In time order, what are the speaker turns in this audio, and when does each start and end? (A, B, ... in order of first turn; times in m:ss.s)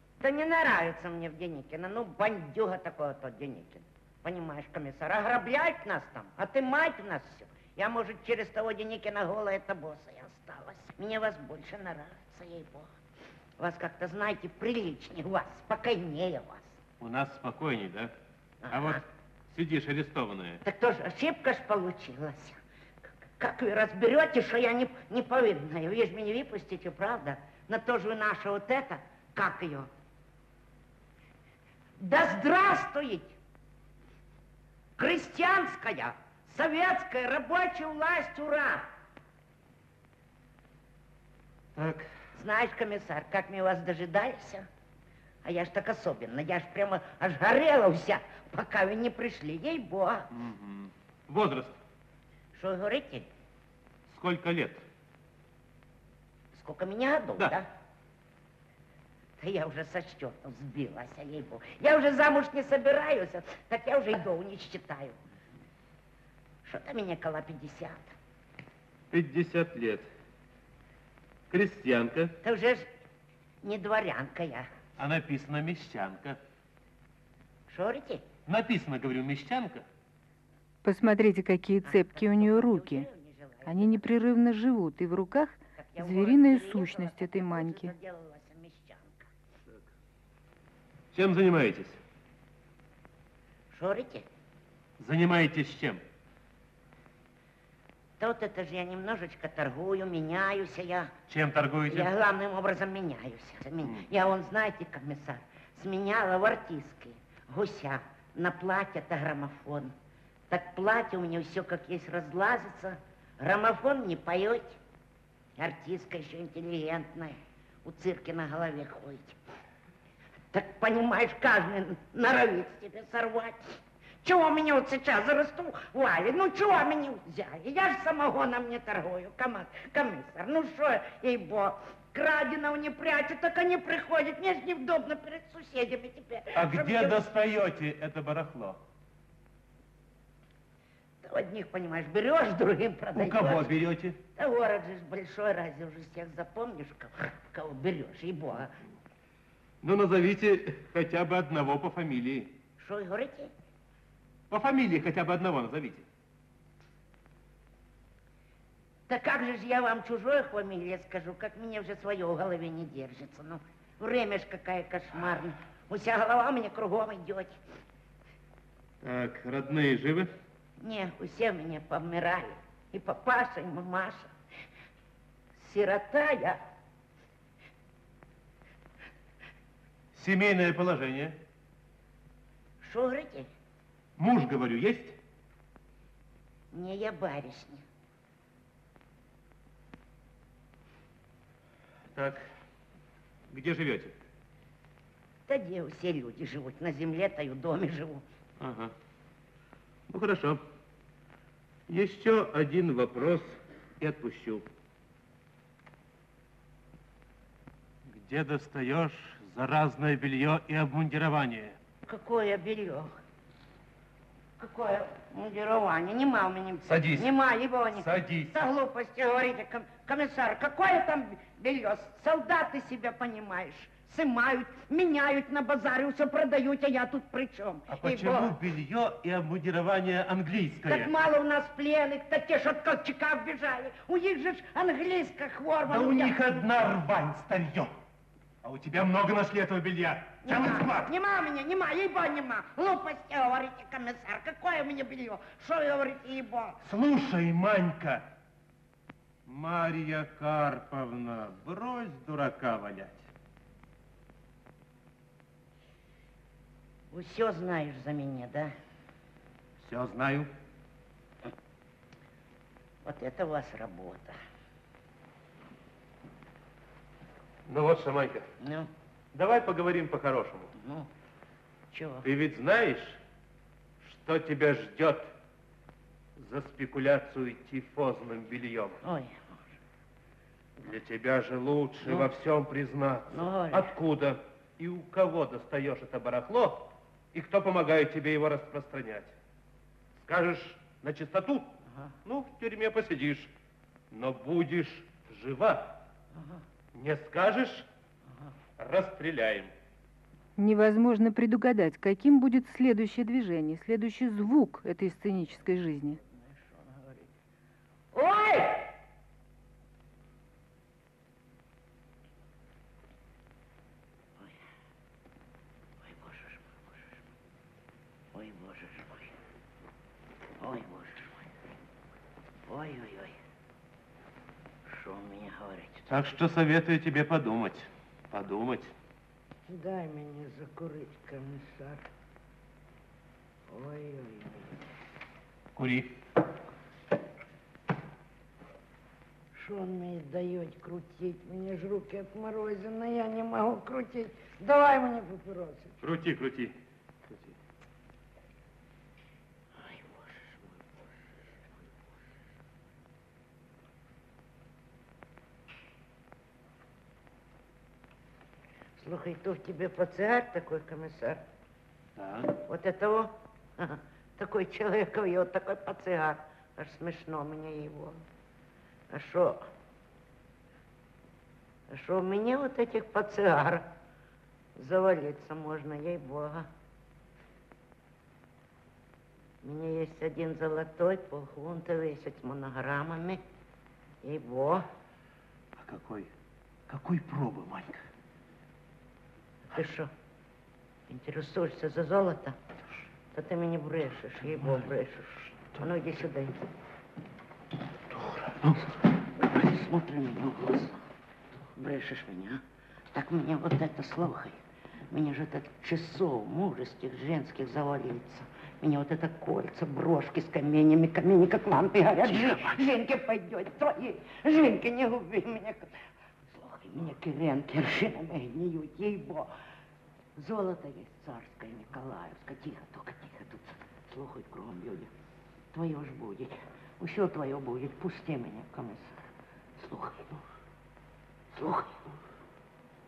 0:00.2-0:12.9 A
0:13.6-0:16.8 A
0:17.0-0:18.1 B
0:18.6-0:19.0 A
0:18.7-0:20.6 B
0:20.6-0:29.9 A
0:32.0-0:33.4 A
0:35.0-0:38.9 A
0:41.8-0:42.1 B
0:42.3-0:44.7 A
0:45.4-0:50.3 A
0:50.3-0:51.8 B
0:52.5-0:53.3 A
0:54.1-0:54.8 B
0:56.5-0:57.7 A
0:59.4-1:05.2 A
1:06.6-1:08.2 A
1:09.1-1:10.1 B
1:11.5-1:12.3 B
1:12.4-1:12.9 A
1:13.6-1:14.7 A
1:15.0-1:16.4 B
1:17.7-1:18.3 A
1:18.5-1:19.9 B
1:20.8-1:23.1 C
1:21.8-1:24.0 A
1:23.6-1:27.9 C
1:25.8-1:29.3 A
1:31.1-1:32.0 B
1:33.7-1:34.3 A
1:35.0-1:36.0 B
1:38.2-1:41.1 A
1:41.3-1:42.1 B
1:41.9-1:50.0 A
1:50.5-1:54.8 A
1:55.6-1:59.4 A
2:00.5-2:17.2 A
2:16.6-2:18.8 B
2:21.2-2:23.7 A
2:23.2-2:24.2 B
2:24.4-2:28.7 A
2:29.8-2:32.6 B
2:32.8-2:33.5 A
2:34.5-2:36.0 B
2:39.1-2:47.6 A
2:49.0-2:50.3 B
2:50.8-2:54.3 A
2:55.6-2:56.6 A
3:00.1-3:01.4 B
3:02.8-3:03.5 A
3:04.2-3:05.2 B
3:06.7-3:07.8 A
3:12.1-3:12.4 B
3:13.5-3:14.2 B
3:15.5-3:18.2 A
3:18.6-3:18.9 B
3:20.1-3:20.6 B
3:21.9-3:24.6 B
3:28.1-3:31.8 B
3:32.1-3:33.2 A
3:34.6-3:48.6 A
3:36.9-3:37.3 B
3:37.9-3:38.5 B
3:47.9-3:51.1 B
3:50.9-3:56.4 A
3:55.9-3:57.9 B
3:58.6-4:01.1 B
4:00.4-4:06.8 A
4:06.8-4:08.3 B
4:09.5-4:13.3 B
4:17.1-4:18.7 A
4:19.8-4:20.5 B
4:23.0-4:24.4 A
4:27.7-4:28.5 B
4:28.6-4:28.9 A
4:29.3-4:30.7 B
4:30.8-4:31.1 A
4:31.9-4:32.3 A
4:32.2-4:33.2 B
4:34.0-4:35.3 B
4:36.4-4:39.0 B
4:39.0-4:39.6 A
4:40.8-4:49.4 B
4:42.0-4:42.3 A
4:43.3-4:43.9 A
4:50.2-4:51.7 B
4:52.2-4:53.5 B
4:54.1-4:56.0 B
4:56.3-4:56.6 A
4:56.9-4:57.9 B
4:58.8-4:59.7 B
5:00.6-5:06.2 C
5:06.3-5:07.3 A
5:08.1-5:08.9 A
5:16.0-5:17.2 A
5:18.3-5:19.3 A
5:20.6-5:21.5 A
5:22.7-5:23.4 A
5:24.9-5:26.1 A
5:26.1-5:28.9 B
5:29.7-5:32.0 A
5:33.7-5:34.8 A
5:35.8-5:36.2 B
5:39.5-5:45.9 A
5:46.0-5:46.8 B
5:47.3-5:47.5 B
5:49.8-5:50.9 A
5:59.0-6:01.4 A
6:02.2-6:02.5 B
6:02.6-6:08.3 A
6:09.1-6:09.7 A
6:11.9-6:13.9 A
6:14.8-6:16.7 A
6:19.6-6:23.4 A
6:24.2-6:24.9 A
6:25.8-6:26.3 B
6:26.9-6:28.0 B
6:29.7-6:30.1 A
6:31.1-6:32.6 A
6:33.3-6:36.6 A
6:38.1-6:38.9 B
6:39.4-6:41.0 A
6:41.8-6:44.6 A
6:45.1-6:55.9 A
6:56.5-6:59.5 A
7:00.4-7:05.1 A
7:05.7-7:09.2 A
7:09.8-7:10.4 A
7:11.5-7:12.2 A